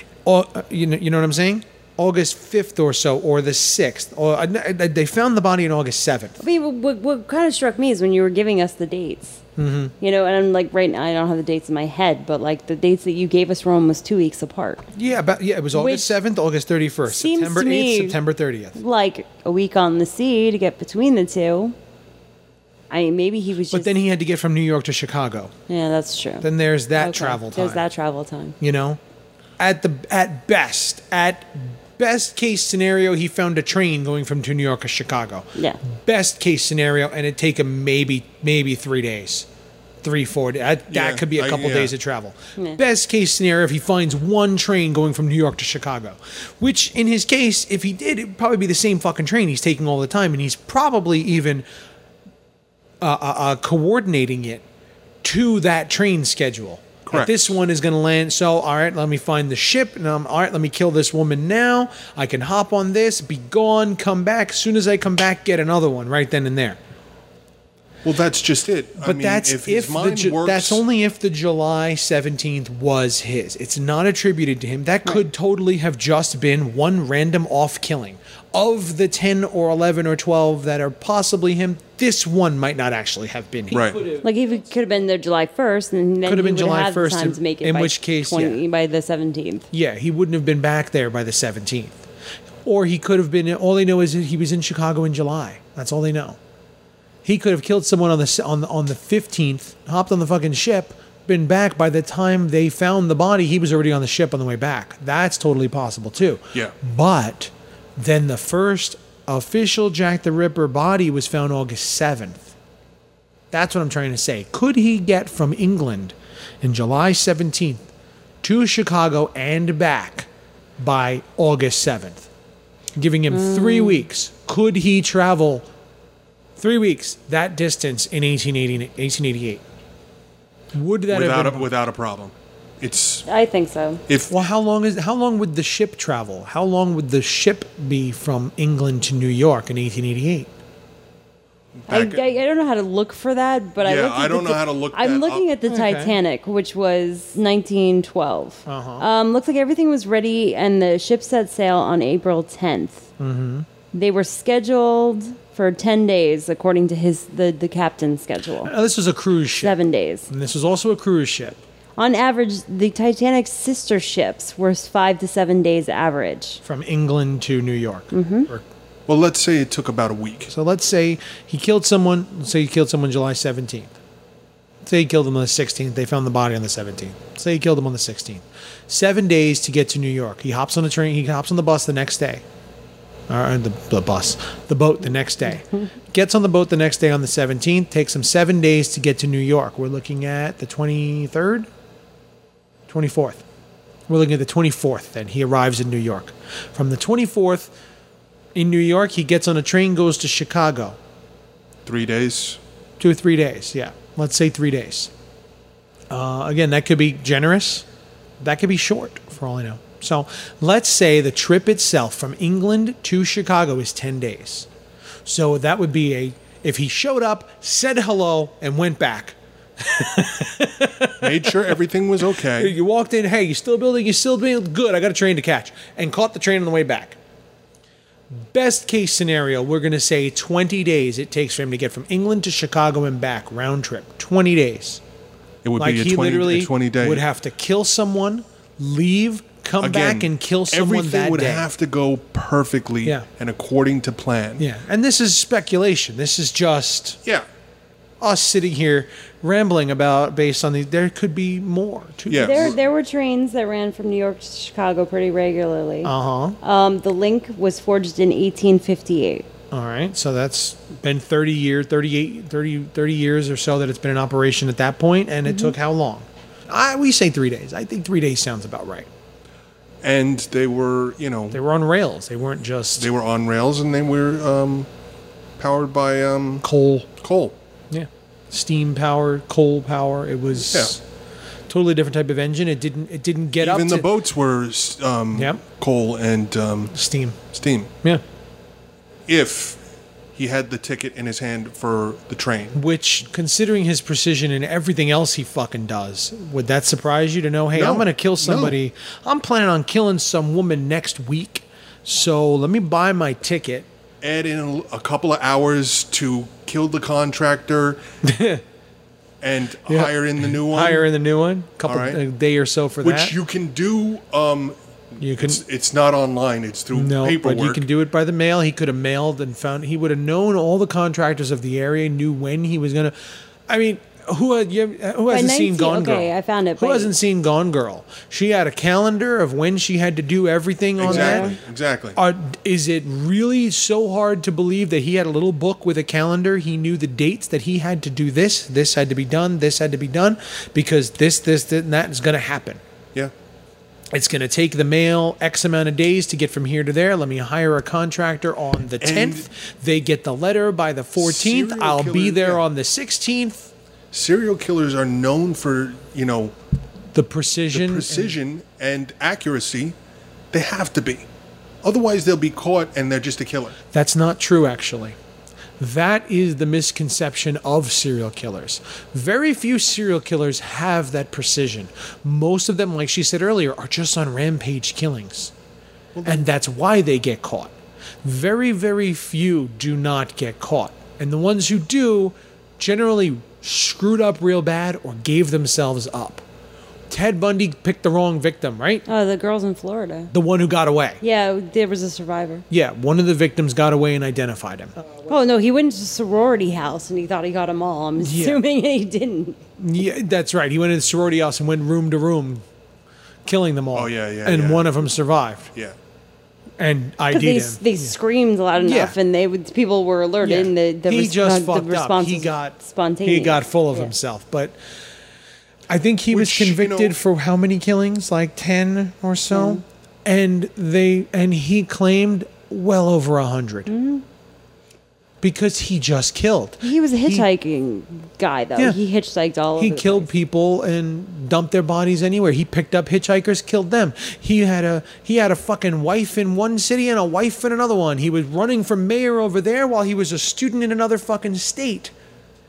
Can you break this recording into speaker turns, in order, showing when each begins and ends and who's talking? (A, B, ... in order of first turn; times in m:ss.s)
0:00.2-0:06.4 A
0:06.4-0:09.4 B
0:09.6-0:09.9 A
0:10.0-0:14.8 B
0:14.9-0:18.8 A
0:15.7-0:16.2 B
0:17.1-0:18.2 B
0:18.8-0:21.7 B
0:22.9-0:23.9 B
0:23.7-0:25.5 A
0:25.7-0:28.6 B
0:26.4-0:27.8 A
0:28.6-0:29.0 A
0:29.6-0:39.4 A
0:40.0-0:51.6 A
0:40.9-0:41.9 C
0:53.0-0:54.6 A
0:55.2-1:06.8 A
0:57.0-0:57.5 C
1:08.0-1:10.8 C
1:09.0-1:24.3 A
1:23.7-1:24.0 C
1:24.2-1:29.7 B
1:26.2-1:28.6 A
1:29.7-1:32.0 A
1:32.6-1:36.4 A
1:37.2-1:52.5 A
1:53.5-1:57.8 A
1:58.4-2:02.3 A
2:03.0-2:05.7 A
2:03.3-2:04.0 B
2:06.6-2:09.6 A
2:10.7-2:11.7 A
2:11.1-2:13.2 C
2:13.3-2:14.0 B
2:14.1-2:14.3 C
2:14.3-2:20.5 A
2:21.8-2:22.2 C
2:21.9-2:33.1 B
2:23.8-2:25.4 C
2:25.7-2:26.2 A
2:28.6-2:29.0 A
2:33.2-2:33.7 A
2:33.9-2:38.7 B
2:38.6-2:39.7 A
2:39.6-2:40.3 B
2:40.3-2:41.6 A
2:42.0-2:46.6 B
2:46.6-2:48.6 A
2:48.1-2:48.5 B
2:49.1-2:50.5 C
2:50.5-2:53.9 A
2:54.8-3:02.4 A
3:03.3-3:11.7 A
3:12.9-3:13.4 A
3:14.1-3:17.7 A
3:18.5-3:21.0 A
3:21.8-3:22.6 C
3:23.0-3:25.1 A
3:26.1-3:27.8 A
3:28.4-3:34.7 A
3:35.2-3:41.6 A
3:41.2-3:42.7 C
3:42.5-3:47.2 A
3:48.3-3:55.0 A
3:55.6-3:57.2 C
3:55.8-4:01.7 A
3:59.8-4:04.6 C
4:04.6-4:07.2 A
4:08.2-4:12.8 A
4:12.3-4:12.8 C
4:12.4-4:16.1 B
4:16.0-4:16.6 A
4:16.6-4:19.4 B
4:19.7-4:29.1 A
4:25.5-4:25.7 B
4:30.0-4:31.6 C
4:31.5-4:33.1 A
4:33.0-4:34.9 C
4:35.6-4:37.5 C
4:36.6-4:37.1 A
4:37.9-4:41.0 A
4:40.6-4:41.0 C
4:41.7-4:44.1 A
4:43.6-4:46.9 C
4:45.3-4:45.6 A
4:46.9-4:47.4 A
4:47.5-4:47.9 C
4:49.3-4:49.8 C
4:50.3-4:52.8 C
4:52.7-5:03.9 A
4:57.7-4:58.8 C
5:04.2-5:08.0 C
5:08.2-5:08.6 A
5:09.4-5:11.1 C
5:09.9-5:13.3 A
5:11.8-5:12.2 C
5:13.0-5:17.8 C
5:15.2-5:15.6 A
5:16.9-5:23.2 A
5:23.7-5:31.5 A
5:25.3-5:27.1 B
5:31.0-5:32.2 C
5:31.1-5:31.5 B
5:32.1-5:42.8 A
5:44.1-5:53.7 A
5:49.0-5:49.4 C
5:51.2-5:52.6 C
5:54.1-5:56.5 C
5:57.1-5:58.3 A
5:57.7-6:00.0 C
6:00.5-6:01.3 C
6:01.8-6:03.8 C
6:03.9-6:05.2 A
6:05.8-6:15.5 A
6:16.1-6:16.4 C
6:16.2-6:17.7 A
6:18.2-6:26.4 A
6:27.1-6:29.0 A
6:29.0-6:30.3 B
6:30.3-6:31.2 A
6:31.2-6:32.6 B
6:32.7-6:35.0 A
6:35.2-6:39.6 B
6:38.2-6:38.6 A
6:39.8-6:42.6 A
6:43.4-6:45.7 A
6:43.9-6:44.9 C
6:46.8-6:48.1 A
6:47.3-6:54.1 B
6:48.8-6:49.2 A
6:50.4-6:54.8 A
6:55.9-7:03.9 A
6:56.3-6:57.2 C
6:59.5-6:59.8 B
7:03.9-7:04.2 B
7:05.4-7:07.4 A
7:06.8-7:10.3 B
7:09.8-7:22.1 A